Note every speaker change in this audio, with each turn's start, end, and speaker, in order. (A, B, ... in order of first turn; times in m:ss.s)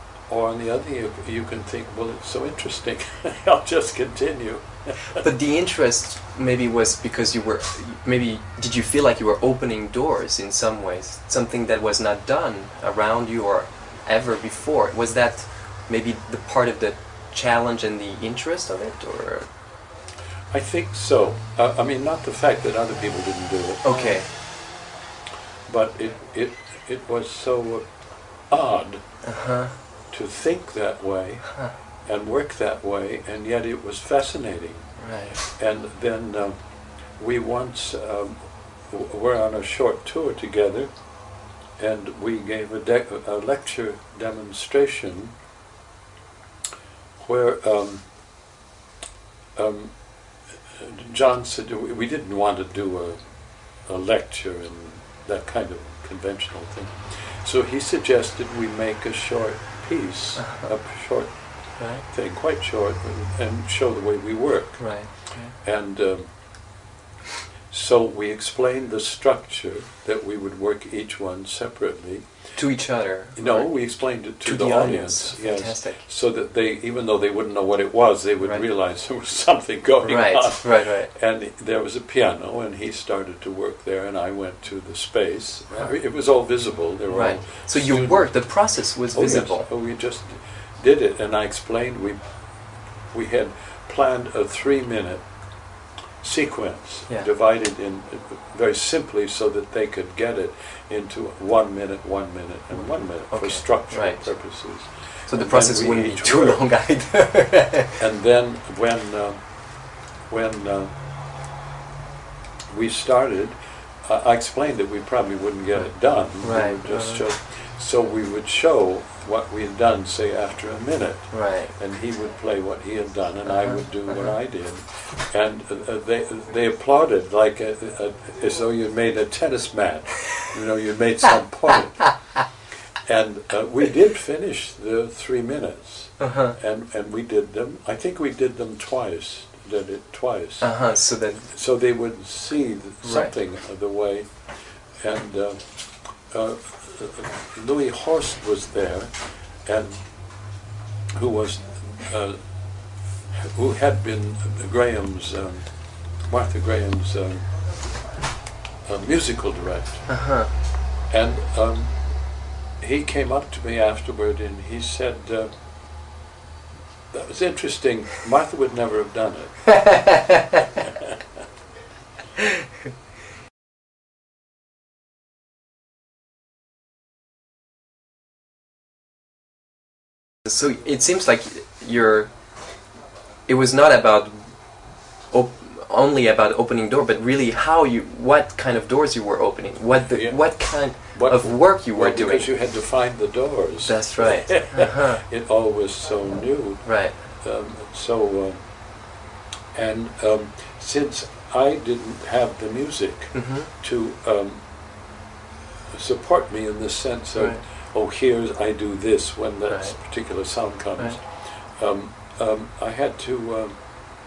0:00.3-0:05.2 A
0:05.2-0:19.5 B
0:20.5-0:24.4 A
0:23.8-0:24.3 B
0:25.7-0:28.0 A
0:28.5-0:29.2 A
0:29.2-0:29.8 B
0:30.1-0:36.6 A
0:35.0-0:35.4 B
0:37.2-0:40.9 A
0:41.8-0:45.4 A
0:47.2-0:48.1 A
0:49.6-0:50.0 A
0:50.5-0:53.3 A
0:53.8-1:01.5 A
1:00.4-1:00.7 B
1:01.8-1:02.0 B
1:02.0-1:06.4 A
1:04.8-1:05.6 B
1:07.7-1:12.6 A
1:12.6-1:13.7 B
1:13.4-1:28.3 A
1:14.4-1:16.0 B
1:20.0-1:21.1 B
1:27.1-1:29.7 B
1:29.1-1:32.2 A
1:33.1-1:35.3 A
1:36.2-1:46.6 A
1:43.3-1:44.3 B
1:45.3-1:48.0 B
1:48.0-1:49.6 A
1:50.3-1:50.9 A
1:52.7-2:12.2 A
1:56.4-1:57.2 B
2:01.3-2:01.7 B
2:03.5-2:04.3 B
2:13.0-2:20.7 A
2:16.2-2:16.6 B
2:20.6-2:21.5 B
2:21.5-2:24.4 A
2:23.0-2:23.3 B
2:25.0-2:30.0 A
2:31.1-2:32.4 A
2:33.3-2:37.4 A
2:38.8-2:40.1 A
2:40.1-2:40.5 B
2:41.1-2:41.9 A
2:42.8-2:45.5 A
2:47.1-2:49.8 A
2:49.7-2:50.8 B
2:50.8-2:51.2 A
3:00.4-3:02.3 B
3:03.5-3:04.6 B
3:05.3-3:12.5 B
3:10.1-3:10.4 A
3:11.0-3:18.6 A
3:13.9-3:15.2 B
3:16.8-3:17.2 B
3:19.7-3:24.6 A
3:23.3-3:23.7 B
3:25.9-3:33.8 A
3:29.7-3:30.0 B